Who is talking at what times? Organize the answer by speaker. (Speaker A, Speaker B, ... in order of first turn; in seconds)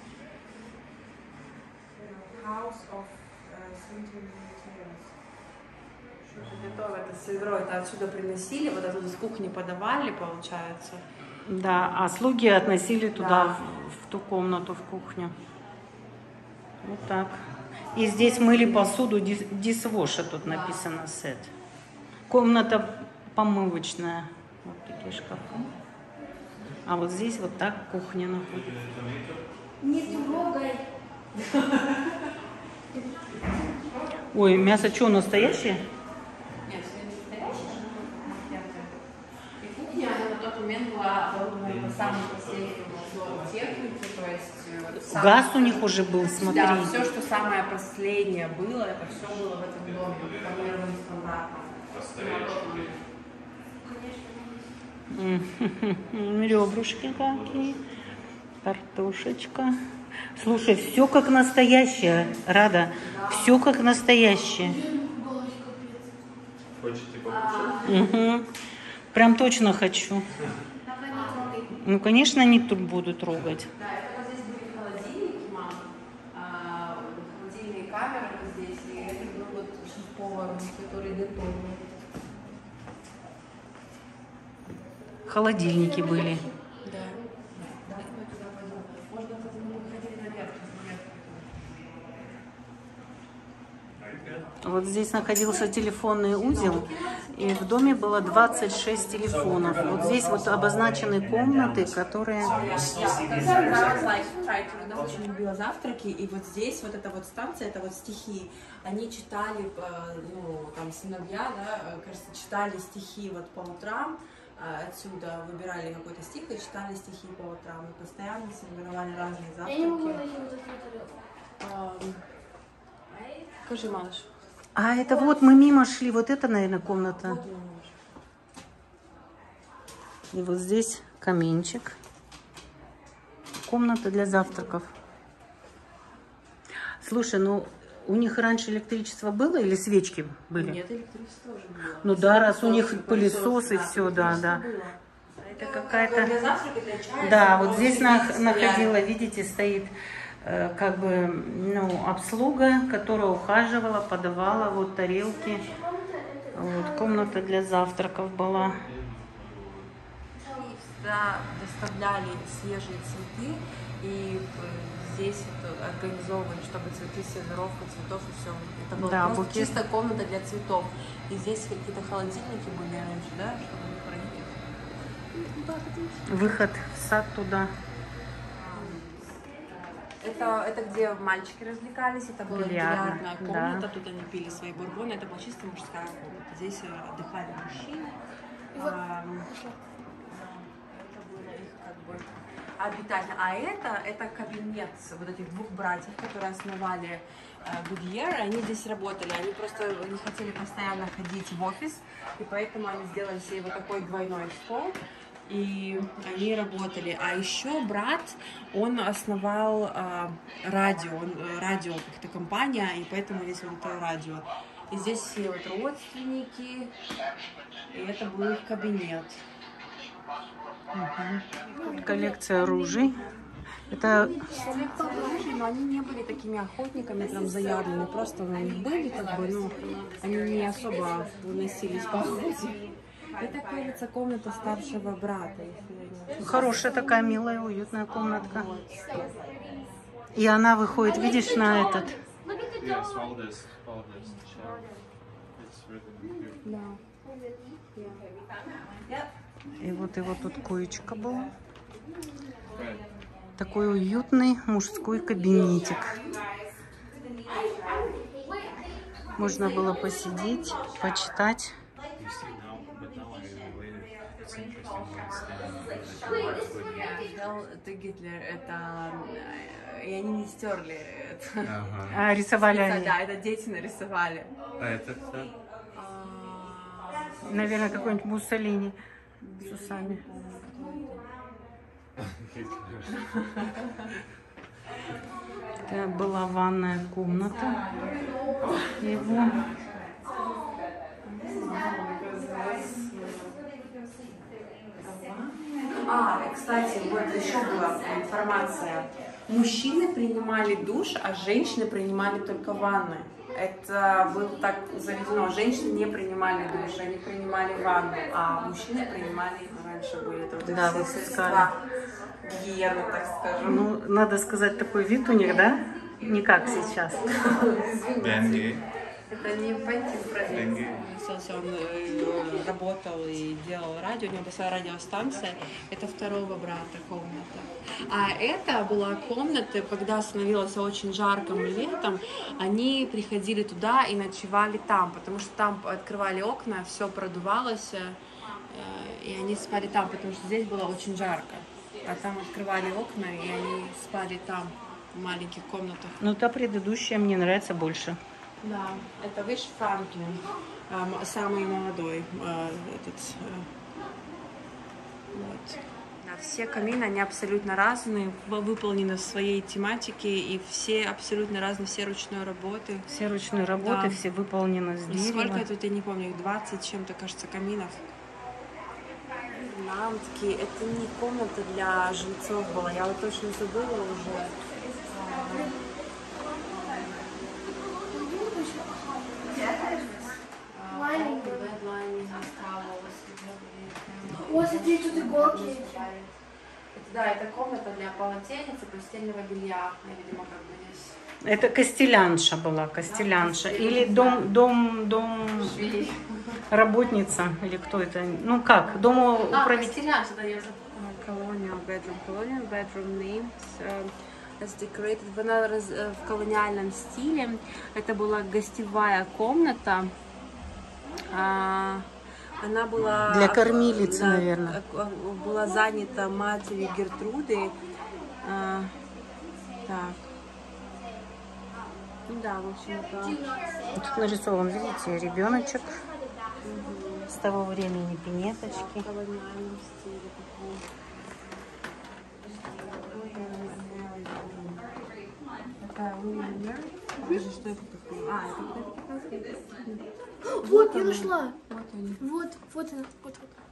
Speaker A: 1.9-5.1, 6.2-11.0, 13.1-13.6, 18.0-18.9, 20.4-20.8, 30.0-30.5, 31.3-32.2, 36.6-39.0, 39.6-53.0, 53.8-54.5, 63.0-63.6, 67.2-68.0, 73.7-81.8, 86.8-91.5, 96.4-100.0, 102.4-120.2, 121.6-122.2, 123.6-124.3, 127.0-127.9, 140.5-148.9, 160.5-174.6, 178.5-179.3, 180.2-188.2, 188.7-189.5, 190.2-216.9, 217.9-219.4, 224.4-237.0, 238.1-240.0, 244.6-244.9, 246.6-247.0, 247.9-248.2, 266.9-271.8, 272.5-274.6, 275.9-278.2, 279.4-281.3, 291.2-293.6, 295.0-311.8, 312.4-313.9, 316.6-346.2, 348.6-353.7, 355.3-363.1, 363.8-364.2, 365.1-368.1, 369.5-375.8, 376.4-377.6, 380.7-386.4, 386.9-391.2, 393.0-394.5, 395.5-396.6, 399.5-410.1, 411.2-417.8, 418.4-419.0, 419.8-420.2, 422.3-423.4, 426.6-427.3, 428.6-431.1, 432.4-434.9, 435.8-440.1, 440.6-442.2
Speaker B: 6.4-6.8, 28.5-29.5, 35.3-35.7, 41.6-43.9, 49.1-50.8, 51.9-53.0, 57.0-58.2, 66.8-67.9, 94.0-94.5, 99.5-100.2, 102.5-104.1, 158.5-159.9, 242.8-246.7, 252.7-253.0, 262.2-267.3, 271.6-272.2, 274.8-275.5, 282.1-283.2, 318.2-318.8, 320.5-321.0
Speaker C: 11.4-15.3, 16.8-17.4, 17.9-21.5, 22.3-25.7, 26.8-28.8, 34.3-35.9, 45.0-46.9, 55.1-57.8, 58.6-59.8, 60.3-64.8, 67.8-68.5, 69.1-70.3, 71.7-73.7, 85.2-86.5, 94.6-102.6, 124.8-127.4, 130.3-132.0, 133.7-134.9, 137.0-140.8, 142.0-144.6, 145.4-146.3, 147.2-155.7, 156.5-158.8, 168.9-169.8, 176.2-177.7, 182.5-183.8, 220.9-223.2, 223.9-224.4, 236.4-238.7, 240.3-242.2, 249.8-251.5, 253.6-256.2, 259.4-261.7, 272.1-273.1, 277.4-279.0, 279.6-280.2, 285.9-287.8, 288.9-289.6, 310.6-311.7, 313.6-317.3, 346.2-348.2, 363.1-365.6, 391.4-395.8, 396.7-400.0, 413.2-414.8, 423.9-426.0, 427.3-429.1
Speaker D: 29.8-30.8, 54.0-54.5, 64.5-66.2, 70.8-71.7, 85.7-86.5, 119.6-121.1, 154.7-157.6, 160.3-160.7, 175.3-176.7, 188.7-189.8, 221.8-223.2, 223.9-225.4, 236.4-237.2, 241.0-242.7, 247.2-247.8, 377.9-380.4, 380.9-381.7, 384.4-386.1, 399.6-400.8, 423.4-424.0, 437.2-437.4, 440.4-441.6, 442.2-443.6